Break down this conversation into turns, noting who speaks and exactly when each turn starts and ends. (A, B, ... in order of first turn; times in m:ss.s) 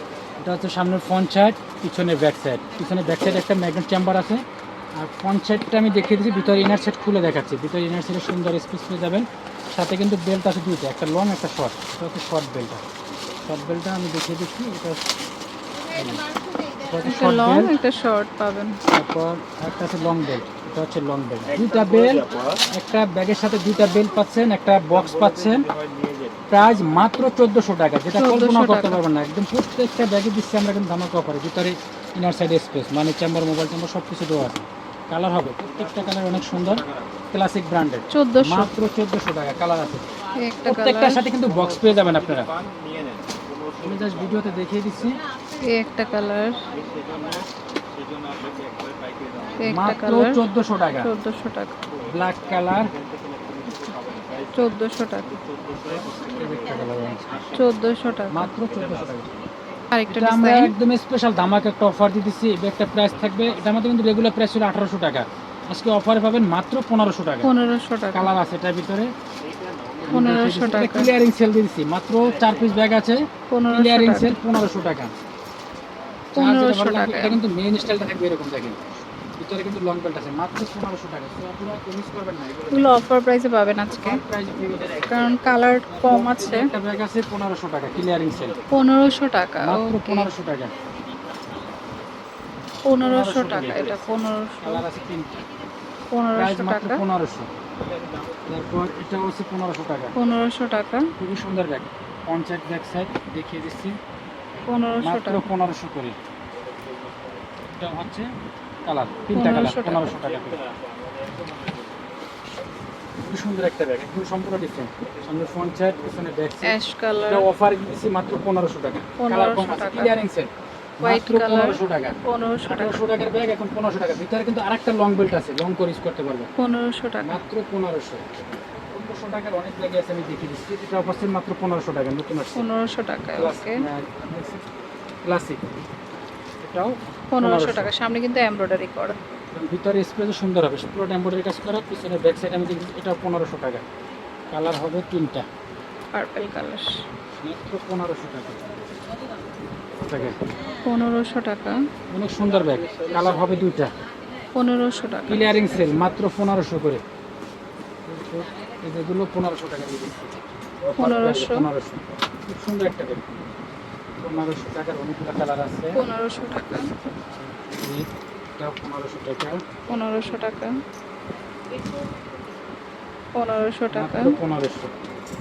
0:00.4-0:04.4 A
0:05.0-0:12.8 A
0:13.5-0:15.1 A
0:15.9-0:16.2 A
0:16.8-0:17.7 A
0:17.0-0:18.8 B
0:18.9-0:25.7 A
0:26.5-0:40.0 A
0:28.2-0:29.0 B
0:38.1-0:38.7 B
0:40.4-0:41.3 B
0:40.6-0:42.5 A
0:43.8-0:45.2 A
0:45.6-0:46.7 B
0:49.6-0:50.4 B
0:49.6-0:51.1 A
0:51.0-0:51.7 B
0:52.1-0:52.9 A
0:54.5-0:55.4 B
0:56.0-0:57.4 A
0:57.5-0:58.5 B
0:58.3-0:59.3 A
0:59.9-1:00.7 B
1:00.1-1:07.5 A
1:07.4-1:08.3 B
1:08.1-1:09.1 A
1:10.1-1:15.1 A
1:10.1-1:11.1 B
1:13.5-1:14.4 B
1:16.3-1:17.4 B
1:16.4-1:18.8 A
1:19.4-1:22.9 A
1:22.7-1:24.2 B
1:23.9-1:25.3 A
1:24.9-1:26.7 B
1:25.9-1:28.6 A
1:28.7-1:30.3 B
1:29.6-1:30.7 A
1:32.8-1:34.8 B
1:33.0-1:34.0 A
1:34.6-1:35.4 A
1:36.1-1:37.0 B
1:36.4-1:37.5 A
1:38.4-1:40.1 A
1:40.2-1:41.1 B
1:41.2-1:44.0 A
1:44.7-1:45.4 B
1:45.0-1:46.2 A
1:47.7-1:48.3 A
1:48.8-1:50.6 A
1:49.3-1:50.0 B
1:53.2-2:00.5 A
1:56.7-1:57.5 B
1:59.2-2:00.1 B
2:01.0-2:06.5 A
2:01.0-2:03.0 B
2:06.6-2:07.4 B
2:07.2-2:08.2 A
2:08.9-2:12.6 A
2:12.5-2:13.8 B
2:13.4-2:14.6 A
2:15.2-2:15.7 A
2:16.6-2:17.9 A
2:17.3-2:19.2 B
2:19.5-2:23.8 A
2:24.5-2:25.4 A
2:26.1-2:27.0 B
2:27.4-2:28.6 A
2:30.0-2:30.4 A
2:30.8-2:31.8 B
2:32.1-2:33.9 A
2:34.5-2:35.5 B
2:35.3-2:37.0 A
2:38.1-2:43.4 A
2:40.9-2:41.7 B
2:44.2-2:46.0 A
2:45.9-2:46.9 B
2:47.7-2:48.1 A
2:48.6-2:49.6 A
2:49.9-2:50.7 B
2:53.4-2:54.3 B
2:53.9-2:54.9 A